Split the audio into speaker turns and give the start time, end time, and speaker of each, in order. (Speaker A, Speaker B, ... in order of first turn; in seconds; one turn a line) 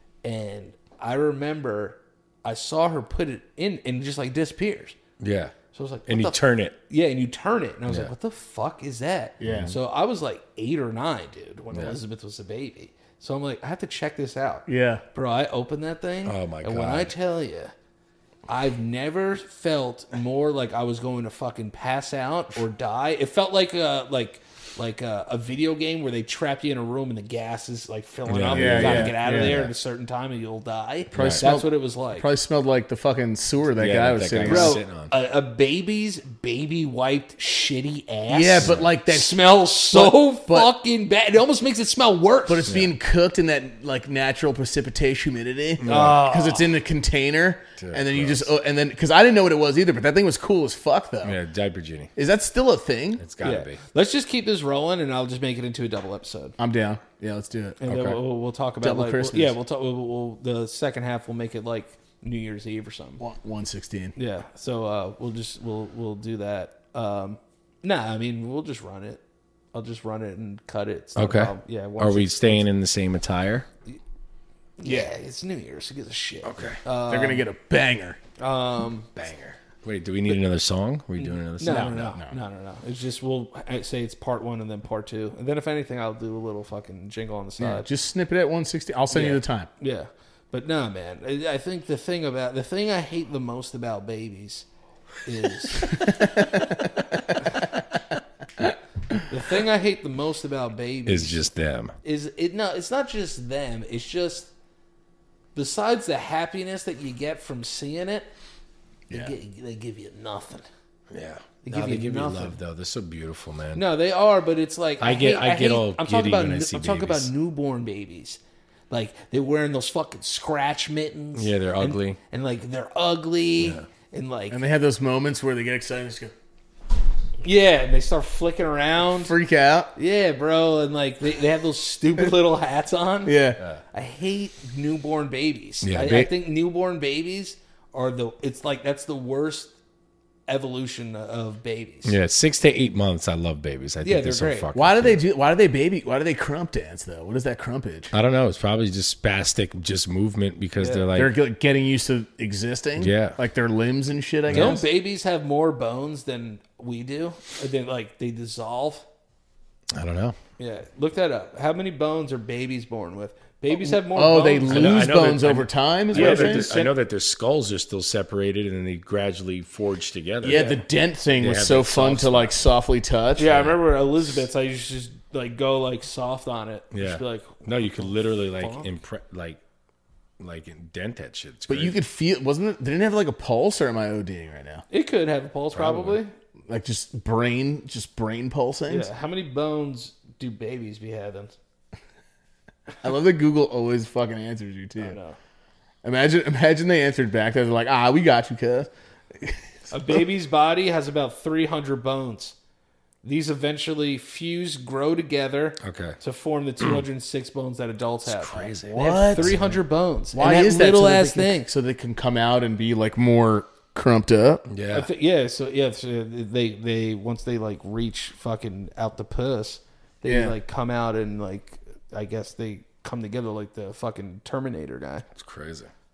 Speaker A: 0.2-5.0
Speaker B: 5.2-5.5
Speaker A: 5.7-17.7
Speaker B: 6.1-6.8
Speaker C: 9.4-9.8
Speaker B: 9.4-9.7
Speaker B: 11.7-12.0
Speaker C: 14.7-15.0
Speaker B: 16.2-17.1
Speaker A: 18.5-32.3
Speaker B: 28.3-29.7
Speaker C: 28.5-29.6
Speaker B: 31.1-31.5
Speaker C: 31.1-34.8
Speaker B: 33.8-35.1
Speaker A: 34.4-42.7
Speaker C: 38.3-40.7
Speaker B: 38.6-38.9
Speaker C: 42.5-51.4
Speaker B: 42.7-42.9
Speaker B: 45.8-46.2
Speaker A: 45.8-46.8
Speaker B: 47.8-48.5
Speaker B: 51.2-52.1
Speaker C: 52.2-53.2
Speaker B: 53.2-53.8
Speaker A: 53.4-56.6
Speaker C: 56.6-57.8
Speaker A: 57.8-63.2
Speaker B: 57.9-58.2
Speaker C: 58.8-59.6
Speaker C: 63.2-64.2
Speaker A: 64.2-69.2
Speaker A: 69.7-72.7
Speaker B: 71.2-73.7
Speaker A: 74.8-77.4
Speaker C: 74.8-75.1
Speaker B: 76.4-76.8
Speaker C: 77.1-78.2
Speaker A: 78.4-79.1
Speaker B: 79.2-82.1
Speaker A: 81.2-87.9
Speaker C: 81.7-82.4
Speaker C: 87.6-89.7
Speaker A: 89.1-94.7
Speaker A: 95.2-96.2
Speaker C: 95.9-96.7
Speaker A: 99.3-101.5
Speaker B: 101.1-102.0
Speaker A: 102.0-104.5
Speaker A: 105.5-108.3
Speaker A: 109.1-110.7
Speaker B: 111.1-113.8
Speaker A: 111.6-112.5
Speaker A: 113.8-124.6
Speaker B: 115.0-117.3
Speaker B: 121.3-122.2
Speaker B: 123.6-123.9
Speaker C: 124.5-126.3
Speaker A: 127.4-129.3
Speaker C: 129.2-129.9
Speaker A: 130.0-139.7
Speaker C: 133.2-133.6
Speaker B: 135.8-136.3
Speaker A: 140.5-142.1
Speaker B: 142.1-145.2
Speaker A: 144.0-144.7
Speaker C: 144.8-148.1
Speaker B: 148.1-151.3
Speaker A: 150.8-151.1
Speaker C: 151.1-154.8
Speaker B: 153.0-153.4
Speaker B: 154.5-154.8
Speaker A: 154.5-159.1
Speaker B: 159.9-160.4
Speaker A: 160.6-165.1
Speaker C: 163.7-166.9
Speaker B: 164.7-170.7
Speaker A: 166.1-166.9
Speaker C: 170.4-173.6
Speaker A: 170.5-170.8
Speaker B: 171.3-172.6
Speaker A: 173.4-178.9
Speaker B: 176.9-179.6
Speaker B: 180.4-182.0
Speaker C: 181.7-184.8
Speaker A: 184.9-186.3
Speaker B: 185.7-186.2
Speaker C: 186.7-189.1
Speaker A: 188.9-191.5
Speaker C: 193.0-195.2
Speaker A: 195.0-195.4
Speaker C: 196.0-200.2
Speaker A: 199.9-202.6
Speaker A: 203.2-211.7
Speaker B: 205.8-206.2
Speaker B: 208.3-209.8
Speaker C: 208.9-209.6
Speaker C: 210.3-214.7
Speaker B: 214.7-215.1
Speaker A: 214.9-225.3
Speaker C: 220.3-220.6
Speaker B: 225.3-225.9